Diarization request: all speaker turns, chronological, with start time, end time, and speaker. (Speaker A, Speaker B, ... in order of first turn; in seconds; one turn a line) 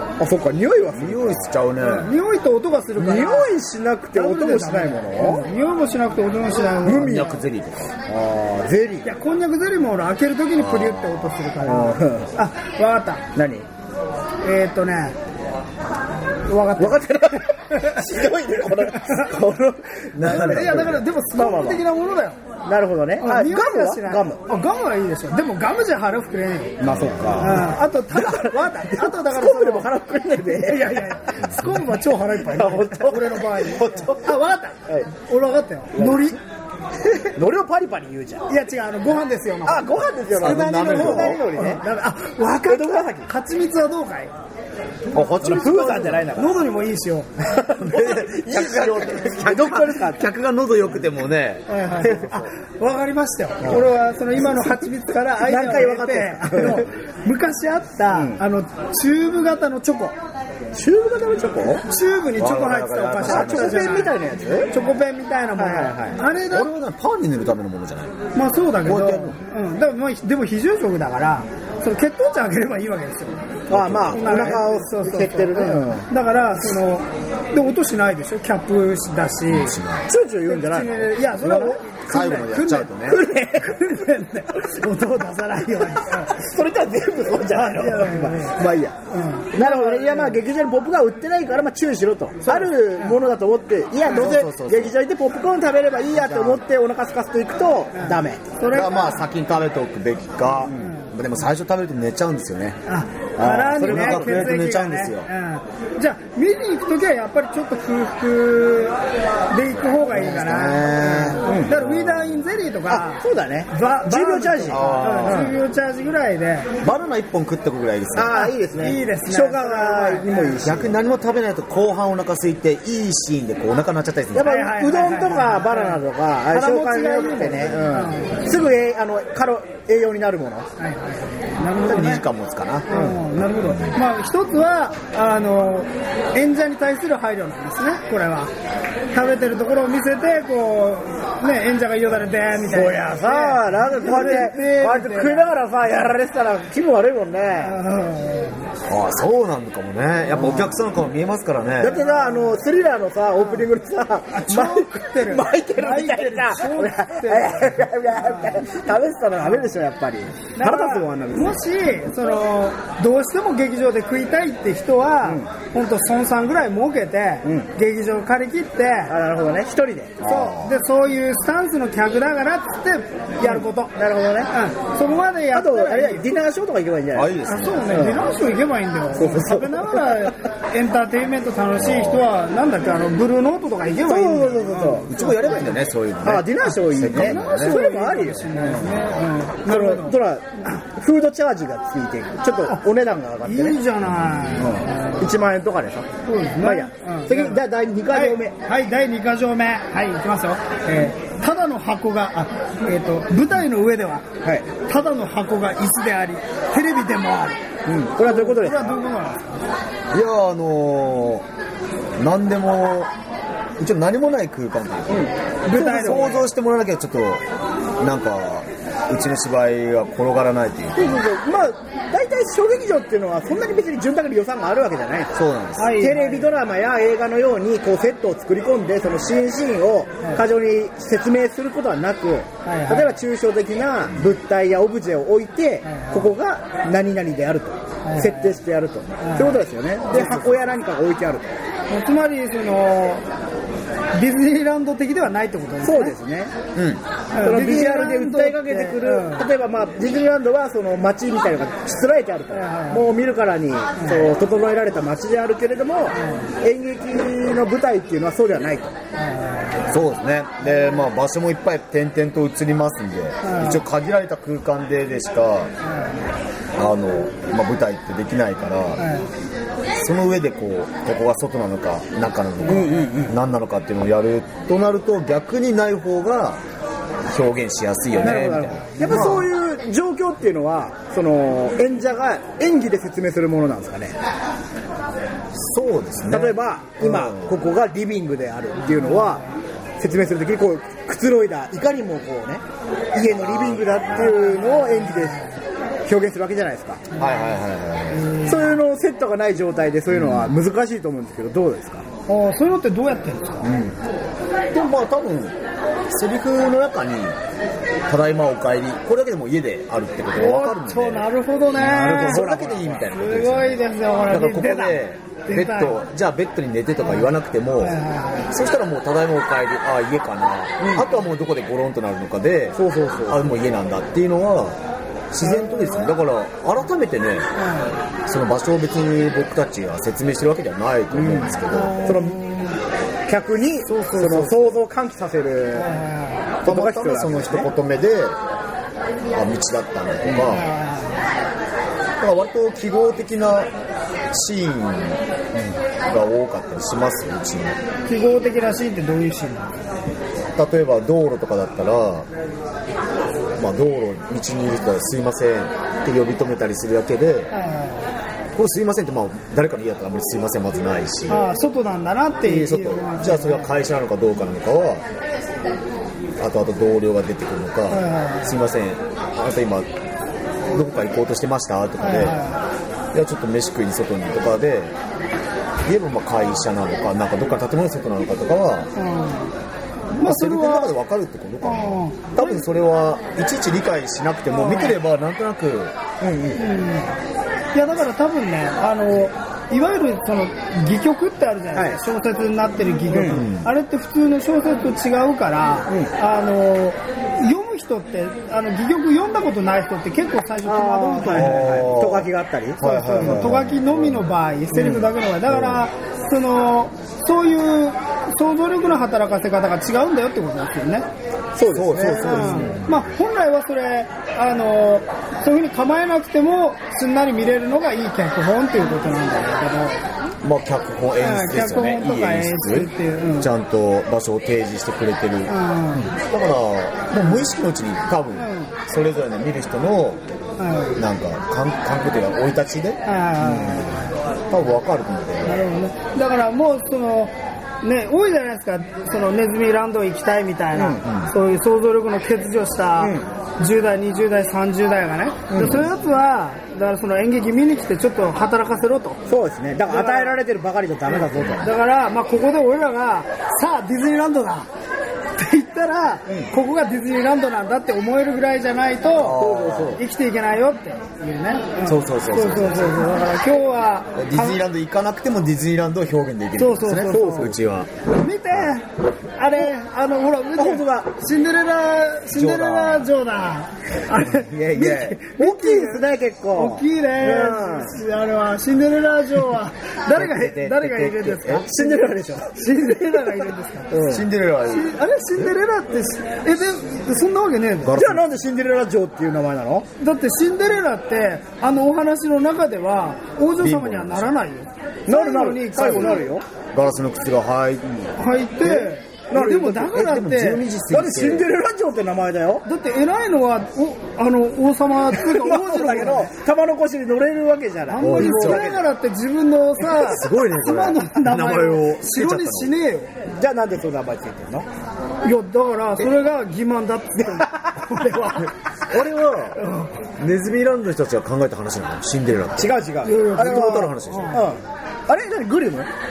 Speaker A: 0.2-1.4
Speaker B: 0.9-2.1
Speaker C: 1.8-3.5
Speaker A: 3.0-5.5
Speaker C: 4.1-7.4
Speaker A: 6.8-7.4
Speaker B: 6.8-7.9
Speaker A: 8.1-9.1
Speaker C: 9.0-13.2
Speaker B: 10.6-11.4
Speaker A: 11.6-12.3
Speaker A: 13.3-13.7
Speaker C: 14.4-15.2
Speaker C: 16.5-18.0
Speaker A: 16.8-21.8
Speaker C: 18.9-19.3
Speaker B: 20.1-21.0
Speaker C: 20.2-22.4
Speaker A: 22.6-24.4
Speaker C: 23.2-26.7
Speaker A: 26.8-34.3
Speaker B: 26.8-27.6
Speaker C: 27.4-29.9
Speaker C: 30.4-36.4
Speaker B: 33.8-34.1
Speaker A: 35.9-36.3
Speaker A: 37.1-38.5
Speaker C: 38.5-44.3
Speaker A: 39.6-41.8
Speaker B: 40.3-41.4
Speaker A: 42.6-43.3
Speaker B: 45.1-46.3
Speaker A: 45.4-46.6
Speaker C: 46.1-47.3
Speaker A: 47.4-50.2
Speaker B: 47.8-52.5
Speaker C: 51.7-60.1
Speaker A: 55.4-56.9
Speaker A: 58.1-58.4
Speaker A: 60.7-61.8
Speaker C: 61.9-64.2
Speaker B: 62.4-64.0
Speaker A: 63.2-64.7
Speaker C: 64.7-66.7
Speaker A: 65.6-66.2
Speaker B: 66.5-68.2
Speaker C: 68.3-73.4
Speaker B: 68.8-69.4
Speaker A: 73.7-76.0
Speaker B: 73.7-74.5
Speaker C: 74.1-79.8
Speaker B: 79.5-80.1
Speaker A: 80.0-81.8
Speaker C: 80.5-82.9
Speaker B: 82.0-83.2
Speaker A: 83.1-84.0
Speaker C: 83.6-86.4
Speaker A: 86.0-89.0
Speaker C: 87.5-90.4
Speaker A: 89.5-98.4
Speaker C: 92.5-93.2
Speaker B: 94.1-95.0
Speaker B: 96.1-96.6
Speaker C: 98.0-99.2
Speaker B: 98.7-102.8
Speaker C: 102.9-109.0
Speaker A: 103.4-104.7
Speaker B: 103.7-105.3
Speaker C: 109.5-116.7
Speaker B: 110.0-112.4
Speaker A: 111.3-111.7
Speaker A: 112.9-115.6
Speaker B: 114.7-115.5
Speaker B: 116.8-118.4
Speaker A: 118.1-120.9
Speaker C: 118.3-120.6
Speaker B: 120.6-124.5
Speaker A: 124.3-130.7
Speaker C: 124.4-128.4
Speaker C: 130.8-132.2
Speaker B: 131.8-134.0
Speaker C: 132.9-138.5
Speaker A: 132.9-133.2
Speaker C: 139.1-145.5
Speaker A: 142.7-147.8
Speaker C: 147.6-148.6
Speaker B: 148.9-152.0
Speaker A: 150.3-150.7
Speaker A: 151.8-161.6
Speaker C: 152.1-152.5
Speaker C: 154.3-158.6
Speaker C: 160.5-169.1
Speaker A: 167.4-167.7
Speaker A: 169.1-170.2
Speaker B: 170.2-170.7
Speaker C: 170.2-173.9
Speaker A: 173.4-174.5
Speaker C: 174.5-176.4
Speaker A: 175.5-177.3
Speaker B: 177.1-178.1
Speaker C: 177.4-185.7
Speaker A: 177.9-178.2
Speaker A: 179.1-180.3
Speaker B: 181.7-182.2
Speaker A: 184.0-185.1
Speaker B: 185.1-187.8
Speaker A: 186.2-188.9
Speaker C: 187.0-190.8
Speaker A: 189.7-193.8
Speaker C: 193.4-195.2
Speaker A: 194.6-196.1
Speaker C: 196.2-204.2
Speaker A: 196.6-198.5
Speaker C: 204.8-207.6
Speaker A: 207.9-208.9
Speaker C: 208.2-209.4
Speaker B: 210.1-211.4
Speaker B: 212.2-213.1
Speaker B: 213.8-215.3
Speaker A: 215.1-216.4
Speaker C: 215.6-216.4
Speaker B: 215.9-217.4
Speaker B: 218.0-221.2
Speaker A: 220.9-225.3
Speaker B: 225.3-226.0
Speaker C: 225.8-226.5
Speaker A: 225.9-241.5
Speaker C: 232.6-233.1
Speaker C: 235.9-236.3
Speaker C: 238.0-238.6
Speaker C: 239.2-239.6
Speaker B: 240.1-240.7
Speaker C: 241.9-243.2
Speaker C: 244.1-246.1
Speaker A: 245.8-246.5
Speaker B: 246.7-247.0
Speaker C: 247.3-249.5
Speaker A: 247.4-258.9
Speaker C: 252.5-253.1
Speaker C: 254.0-254.3
Speaker C: 256.2-256.4
Speaker C: 259.2-259.9
Speaker B: 259.9-265.7
Speaker C: 263.4-263.8
Speaker B: 266.8-269.1
Speaker C: 269.0-269.2
Speaker B: 270.0-276.6
Speaker A: 272.7-273.3
Speaker C: 272.7-272.9
Speaker B: 277.2-279.5
Speaker A: 278.2-284.1
Speaker C: 278.2-278.5
Speaker B: 285.5-287.5
Speaker A: 286.3-289.4
Speaker C: 288.9-289.4
Speaker A: 290.0-295.4
Speaker B: 293.4-294.2
Speaker C: 294.2-295.4
Speaker A: 296.0-297.1
Speaker B: 297.1-298.3
Speaker C: 298.2-298.7
Speaker A: 298.4-302.1
Speaker B: 300.1-300.5
Speaker C: 302.3-303.6
Speaker B: 303.6-304.0
Speaker B: 304.7-305.6
Speaker B: 306.1-307.4
Speaker B: 308.1-324.8
Speaker C: 310.3-312.4
Speaker A: 311.8-313.1
Speaker C: 313.1-316.0
Speaker C: 317.8-318.5
Speaker A: 320.8-321.1
Speaker A: 322.7-323.5
Speaker B: 325.3-327.5
Speaker C: 325.4-326.1
Speaker C: 327.6-327.9
Speaker B: 328.2-332.0
Speaker A: 331.1-332.4
Speaker C: 331.7-332.6
Speaker A: 333.3-335.9
Speaker C: 333.9-334.5
Speaker C: 335.8-336.5
Speaker A: 336.6-337.7
Speaker B: 336.6-338.4
Speaker B: 339.3-340.7
Speaker A: 340.2-340.5
Speaker C: 340.5-341.2
Speaker B: 342.2-343.7
Speaker B: 344.3-347.8
Speaker C: 348.1-349.7
Speaker B: 350.6-352.3
Speaker B: 353.6-357.5
Speaker C: 357.5-358.1
Speaker B: 358.5-361.5
Speaker C: 361.3-363.7
Speaker B: 362.4-365.0
Speaker B: 366.4-369.9
Speaker C: 367.9-368.5
Speaker B: 370.7-372.4
Speaker C: 372.0-372.6
Speaker B: 373.1-374.9
Speaker B: 375.9-378.9
Speaker C: 378.9-379.5
Speaker C: 380.1-380.9
Speaker B: 380.2-385.9
Speaker C: 381.6-382.6
Speaker C: 384.5-384.9
Speaker A: 386.2-386.6
Speaker C: 386.6-387.1
Speaker C: 387.7-401.9
Speaker A: 391.7-392.0
Speaker A: 393.1-393.4
Speaker B: 393.3-393.7
Speaker A: 400.6-403.4
Speaker B: 401.3-405.9
Speaker C: 402.8-411.1
Speaker A: 411.6-412.8
Speaker B: 411.7-413.0
Speaker C: 412.2-420.0
Speaker B: 420.4-430.2
Speaker C: 421.2-423.5
Speaker C: 425.5-426.1
Speaker C: 428.4-428.7
Speaker C: 430.6-431.0
Speaker B: 430.9-433.9
Speaker C: 433.0-434.0
Speaker B: 434.5-435.6
Speaker C: 435.4-449.2
Speaker A: 440.7-441.0
Speaker A: 443.0-443.3
Speaker A: 445.5-445.8
Speaker A: 449.3-451.7
Speaker C: 449.9-450.4
Speaker C: 451.1-454.7
Speaker C: 455.4-459.4
Speaker B: 459.1-460.0
Speaker A: 459.3-460.0
Speaker C: 459.9-464.6
Speaker B: 461.8-463.1
Speaker B: 464.1-467.9
Speaker C: 466.6-467.5
Speaker A: 467.1-467.5
Speaker C: 468.1-468.9
Speaker C: 469.4-483.9
Speaker A: 470.6-471.1
Speaker B: 472.3-473.1
Speaker B: 474.4-475.2
Speaker A: 474.8-477.9
Speaker B: 480.1-481.7
Speaker A: 481.6-484.3
Speaker B: 484.0-484.9
Speaker C: 484.7-488.0
Speaker B: 487.8-488.2
Speaker A: 487.9-489.9
Speaker C: 490.0-496.3
Speaker B: 493.6-494.4
Speaker A: 495.1-496.4
Speaker B: 496.7-497.8
Speaker C: 498.2-500.6
Speaker A: 498.6-500.0
Speaker B: 499.9-501.5
Speaker A: 500.9-502.6
Speaker C: 502.6-506.3
Speaker A: 505.1-508.9
Speaker C: 507.9-513.1
Speaker B: 508.0-508.6
Speaker B: 509.9-512.7
Speaker A: 513.3-514.7
Speaker C: 515.2-518.5
Speaker B: 518.0-519.6
Speaker C: 519.5-519.9
Speaker B: 520.2-522.8
Speaker A: 522.6-525.9
Speaker C: 523.0-524.5
Speaker B: 523.3-524.5